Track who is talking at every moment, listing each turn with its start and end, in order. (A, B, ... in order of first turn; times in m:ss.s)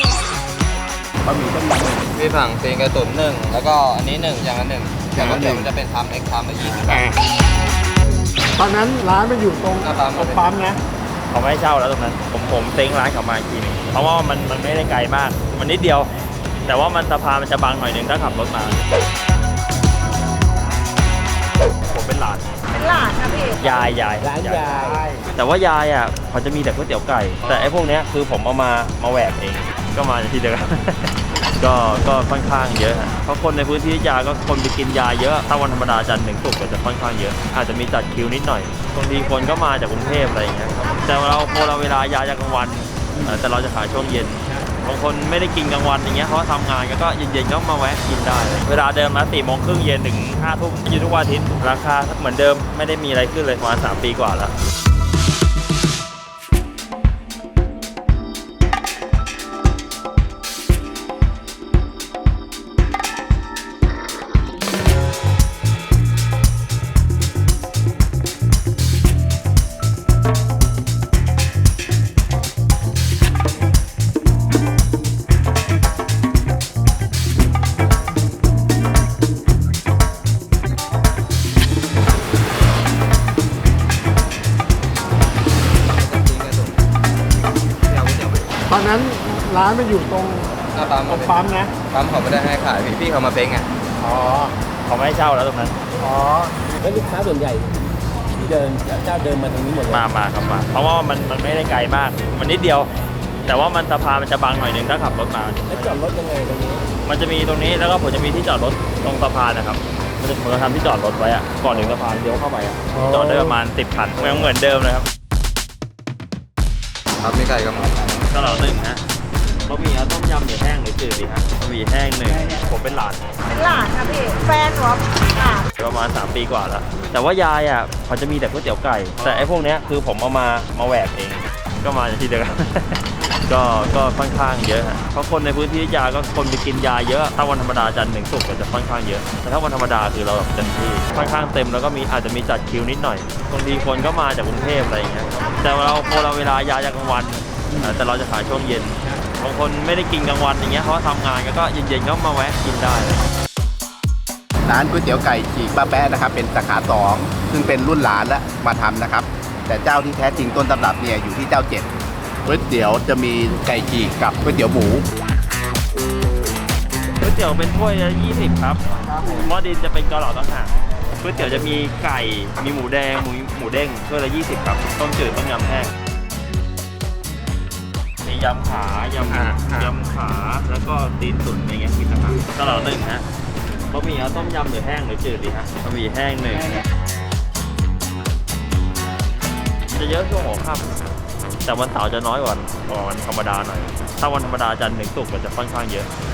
0:01.3-0:01.6 A
0:01.4-0:02.0 B
0:02.1-0:07.1 C
0:05.2-0:05.6 A
0:08.6-0:10.8 D
0:09.8-0:10.5 C
0:11.3-0:16.1 E
0:16.6-0:18.8 E
0:21.9-0:23.0 E
0:23.0-0:23.5 F
0:23.5-0:24.7 E
0:24.2-0:25.1 B
0:25.4-0:54.5 E
1:25.7-1:26.8 C
1:27.8-1:28.5 C
1:28.7-1:30.5 D
1:30.7-1:33.7 C
1:31.1-1:31.7 D
1:34.0-1:34.5 D
1:34.9-1:35.8 E
1:36.0-1:36.5 D
1:36.8-1:37.8 B
1:38.4-1:40.1 B
1:39.9-1:42.9 E
1:43.4-1:46.0 E
1:45.7-1:46.9 B
1:47.0-1:55.1 E
1:57.2-1:58.2 C
1:58.2-1:59.0 E
1:59.6-2:03.3 E
2:03.6-2:05.4 F
2:05.7-2:33.2 E
2:34.6-2:41.9 A
2:42.4-2:45.1 A
2:47.2-2:55.9 E
2:58.2-3:03.2 E
3:03.9-3:06.8 E
3:09.9-3:11.1 E
3:11.6-3:16.1 E